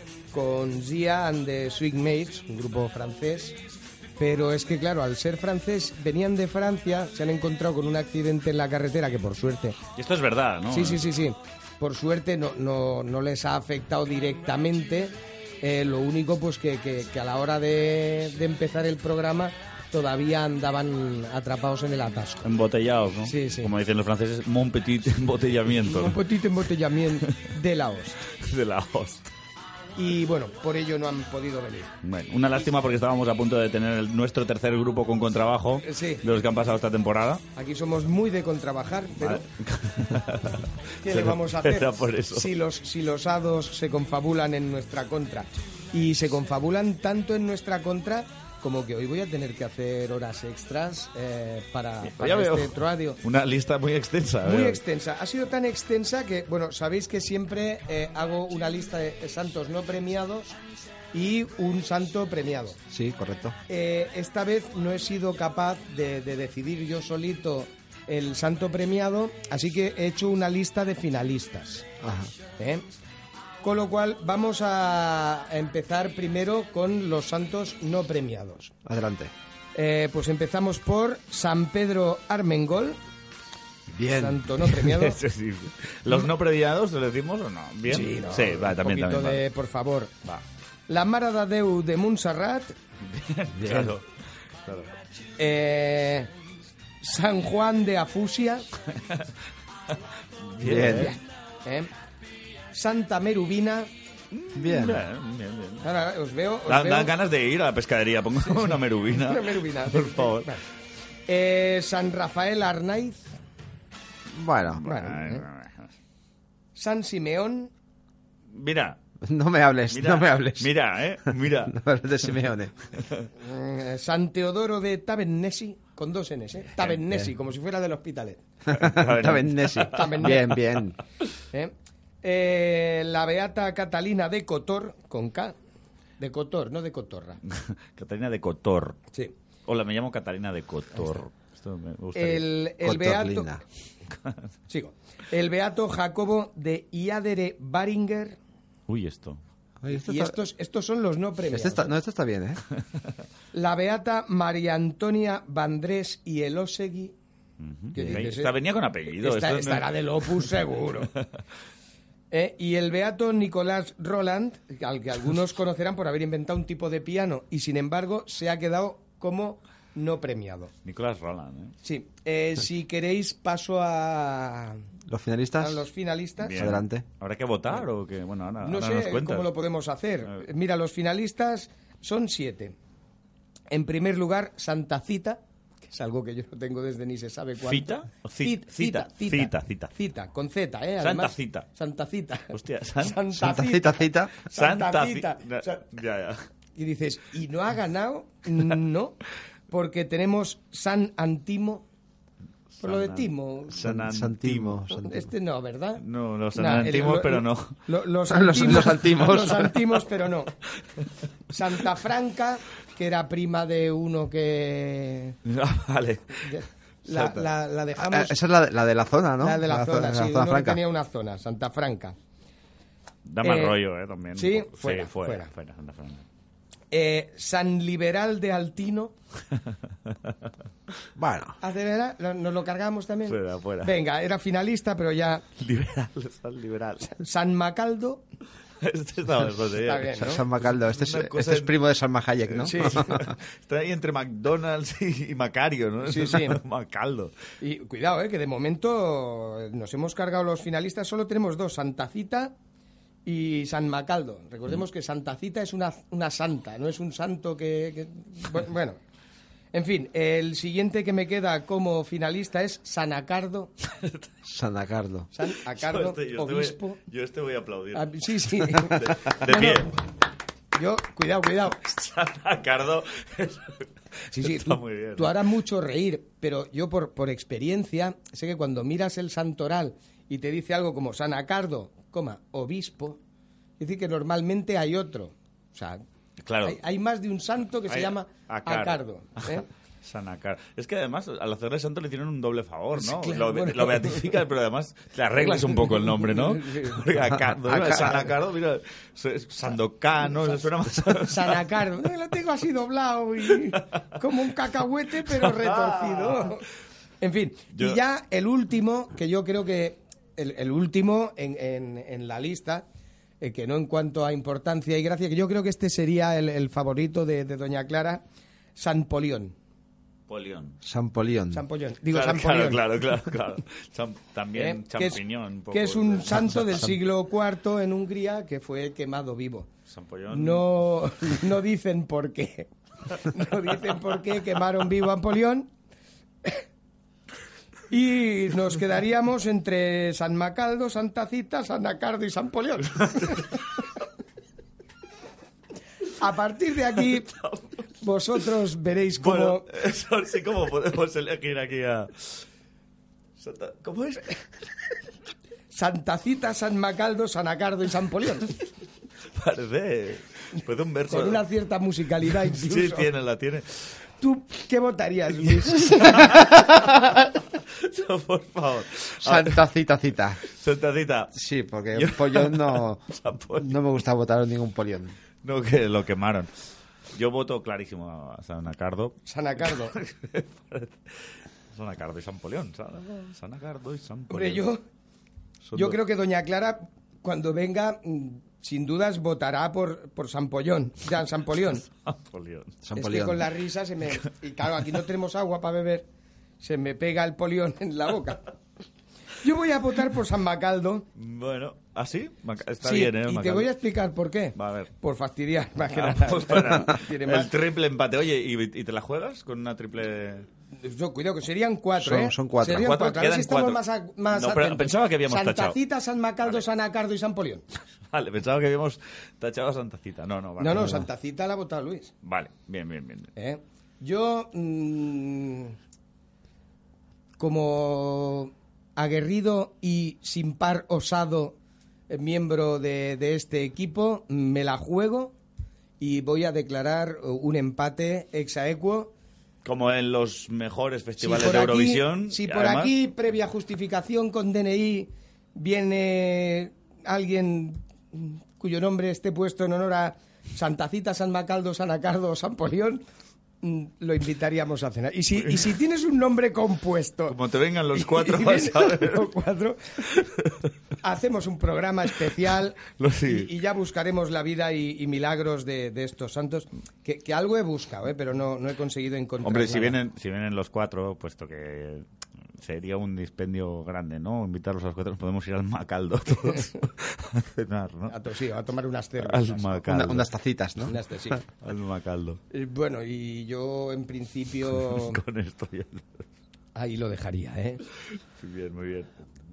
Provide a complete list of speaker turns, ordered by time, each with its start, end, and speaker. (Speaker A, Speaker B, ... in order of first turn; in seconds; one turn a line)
Speaker A: 0.3-3.6
Speaker A: 4.2-9.8
Speaker B: 9.9-11.1
Speaker A: 10.7-22.4
Speaker B: 22.4-26.2
Speaker A: 23.3-23.7
Speaker A: 25.8-28.2
Speaker B: 28.3-29.3
Speaker A: 29.9-31.9
Speaker B: 32.0-37.4
Speaker A: 35.8-36.2
Speaker A: 37.5-39.4
Speaker B: 39.2-42.5
Speaker A: 41.0-53.2
Speaker B: 52.0-54.8
Speaker A: 54.4-60.5
Speaker A: 61.1-62.8
Speaker C: 62.9-63.5
Speaker A: 63.7-71.8
Speaker C: 72.0-72.3
Speaker A: 72.6-72.8
Speaker A: 73.6-78.7
Speaker C: 78.8-79.3
Speaker A: 79.7-83.0
Speaker C: 84.0-84.4
Speaker A: 84.1-85.2
Speaker B: 84.7-89.4
Speaker A: 87.9-90.1
Speaker A: 90.9-92.7
Speaker B: 93.0-94.0
Speaker C: 93.6-93.9
Speaker B: 94.6-94.9
Speaker A: 95.4-96.3
Speaker A: 97.0-98.7
Speaker B: 100.4-101.2
Speaker C: 100.6-101.1
Speaker A: 100.9-101.9
Speaker A: 102.7-103.9
Speaker B: 104.3-105.9
Speaker C: 104.5-105.0
Speaker A: 105.8-107.1
Speaker B: 106.7-110.5
Speaker A: 108.6-110.6
Speaker A: 111.3-113.3
Speaker C: 114.3-114.8
Speaker B: 114.7-115.9
Speaker A: 114.8-115.4
Speaker A: 116.8-117.7
Speaker B: 118.5-119.0
Speaker C: 119.2-120.7
Speaker B: 119.9-121.7
Speaker C: 121.7-122.7
Speaker B: 123.0-123.3
Speaker A: 123.4-128.4
Speaker C: 128.7-131.0
Speaker B: 128.7-130.3
Speaker A: 129.9-130.6
Speaker A: 131.5-135.6
Speaker A: 136.2-137.4
Speaker B: 137.5-139.0
Speaker B: 139.7-142.5
Speaker A: 142.2-143.5
Speaker C: 142.8-143.6
Speaker A: 144.7-148.4
Speaker B: 148.9-149.4
Speaker C: 149.8-150.3
Speaker A: 149.9-151.9
Speaker C: 151.5-152.6
Speaker A: 153.5-157.1
Speaker B: 157.6-159.9
Speaker A: 157.9-158.6
Speaker A: 159.1-161.1
Speaker A: 162.3-170.7
Speaker B: 170.8-171.7
Speaker A: 171.8-174.8
Speaker C: 175.1-175.8
Speaker A: 175.6-176.6
Speaker B: 176.4-179.5
Speaker C: 176.5-177.1
Speaker A: 178.6-182.7
Speaker A: 183.7-195.8
Speaker B: 187.6-189.9
Speaker B: 191.0-191.7
Speaker B: 192.5-193.2
Speaker C: 193.3-194.3
Speaker B: 194.5-196.4
Speaker A: 196.8-199.2
Speaker A: 199.7-201.8
Speaker B: 202.8-204.8
Speaker A: 202.8-203.8
Speaker C: 203.7-205.3
Speaker A: 205.0-206.0
Speaker B: 206.0-207.7
Speaker A: 206.6-210.5
Speaker C: 208.3-209.7
Speaker A: 211.5-215.4
Speaker B: 215.4-216.4
Speaker A: 216.4-218.4
Speaker C: 217.1-217.4
Speaker C: 218.0-220.8
Speaker A: 219.4-222.1
Speaker B: 223.3-226.2
Speaker A: 223.4-223.8
Speaker A: 224.3-225.5
Speaker A: 226.9-229.1
Speaker C: 231.2-231.6
Speaker A: 231.6-235.4
Speaker B: 233.3-233.9
Speaker B: 235.6-237.1
Speaker A: 237.1-238.2
Speaker B: 238.8-241.8
Speaker A: 239.8-240.4
Speaker C: 240.2-243.3
Speaker B: 242.5-247.3
Speaker A: 242.7-243.2
Speaker A: 246.0-246.6
Speaker A: 247.6-252.5
Speaker A: 253.3-259.0
Speaker A: 259.7-263.7
Speaker B: 263.9-264.3
Speaker C: 264.5-265.3
Speaker A: 265.3-267.0
Speaker B: 265.8-268.1
Speaker A: 267.9-269.9
Speaker B: 268.6-269.9
Speaker A: 270.7-271.8
Speaker B: 271.8-275.4
Speaker A: 274.3-283.2
Speaker A: 283.8-286.0
Speaker B: 286.4-286.8
Speaker A: 286.6-289.6
Speaker B: 287.9-301.6
Speaker A: 292.9-294.4
Speaker A: 295.4-297.0
Speaker C: 297.6-298.3
Speaker A: 301.3-306.6
Speaker B: 305.3-306.5
Speaker A: 307.2-312.8
Speaker B: 307.7-308.0
Speaker A: 313.4-318.2
Speaker A: 318.8-319.5
Speaker B: 320.3-320.8
Speaker C: 320.8-321.6
Speaker A: 321.5-322.8
Speaker B: 322.1-326.7
Speaker A: 324.6-329.7
Speaker B: 329.9-330.6
Speaker A: 330.3-335.7
Speaker A: 337.9-343.6
Speaker B: 342.8-343.6
Speaker A: 346.2-347.3
Speaker B: 347.3-347.8
Speaker A: 348.0-349.6
Speaker B: 349.2-352.4
Speaker B: 353.4-354.4
Speaker A: 355.7-358.6
Speaker B: 359.4-361.4
Speaker A: 361.1-363.1
Speaker B: 362.5-363.9
Speaker A: 364.2-366.4
Speaker B: 365.8-369.6
Speaker C: 369.2-370.4
Speaker B: 370.4-371.3
Speaker C: 371.3-373.0
Speaker B: 371.9-373.7
Speaker C: 373.6-375.1
Speaker B: 375.4-376.5
Speaker B: 377.1-381.1
Speaker A: 379.3-379.9
Speaker B: 381.7-384.6
Speaker A: 384.3-384.8
Speaker B: 385.6-386.0
Speaker A: 385.7-391.8
Speaker B: 391.9-392.8
Speaker C: 392.8-393.4
Speaker A: 392.9-396.1
Speaker A: 396.6-398.4
Speaker A: 399.4-401.1
Speaker B: 401.1-403.7
Speaker A: 402.8-407.5
Speaker B: 404.6-404.9
Speaker B: 405.9-410.4
Speaker A: 410.8-417.6
Speaker C: 412.0-412.9
Speaker B: 412.6-413.8
Speaker B: 414.3-415.8
Speaker B: 418.1-421.0
Speaker A: 420.6-422.1
Speaker B: 422.2-423.3
Speaker A: 423.4-425.7
Speaker A: 427.4-431.6
Speaker A: 432.1-435.3
Speaker A: 436.0-439.1
Speaker B: 439.6-442.9
Speaker A: 441.2-453.0
Speaker A: 453.6-457.4
Speaker B: 457.3-459.3
Speaker A: 457.9-460.3
Speaker B: 460.1-460.7
Speaker A: 461.0-470.0
Speaker B: 463.0-463.5
Speaker B: 469.4-472.1
Speaker B: 472.6-478.1
Speaker A: 478.1-479.8
Speaker B: 479.2-480.3
Speaker C: 479.9-480.9
Speaker A: 480.8-481.4
Speaker B: 481.6-482.4
Speaker A: 482.5-485.2
Speaker B: 484.9-486.2
Speaker A: 486.7-487.8
Speaker B: 488.4-489.1